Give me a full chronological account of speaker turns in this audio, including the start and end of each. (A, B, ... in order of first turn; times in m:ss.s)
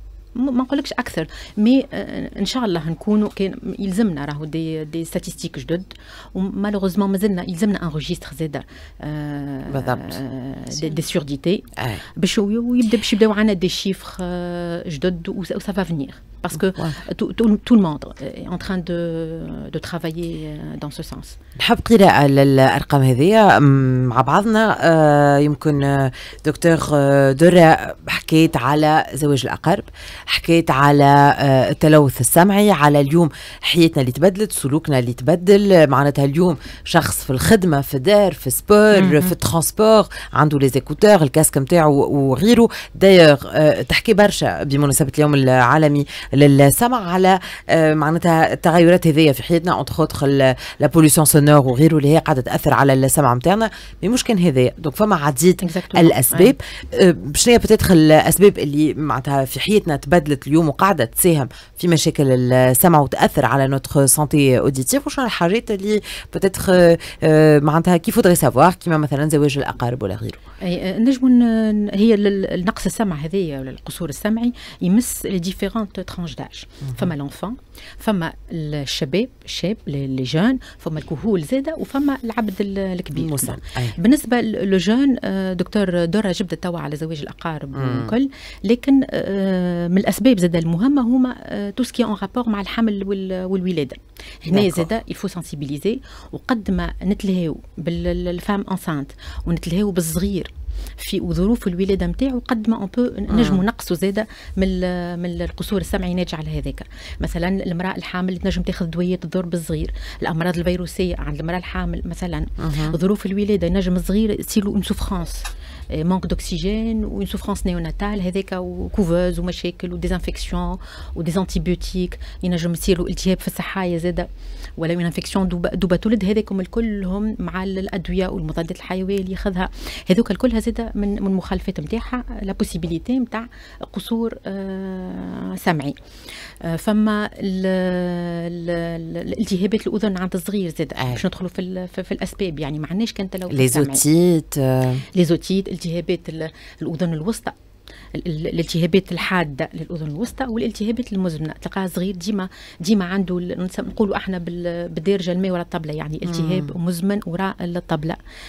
0:00.4-0:21.4 A
0:09.7-0:10.2 B
0:11.8-0:12.0 B
0:16.6-0:17.0 B
0:21.6-1:10.4 B
0:38.9-0:39.4 A
0:55.6-0:56.5 A
1:10.6-2:16.0 A
1:23.2-1:24.0 B
1:27.7-1:28.1 B
1:34.5-1:34.9 B
1:43.3-1:43.6 B
1:52.6-1:53.0 B
2:16.6-2:24.0 A
2:21.0-2:21.2 B
2:23.5-2:25.0 B
2:25.1-2:27.5 A
2:28.1-2:38.2 A
2:36.2-2:36.7 B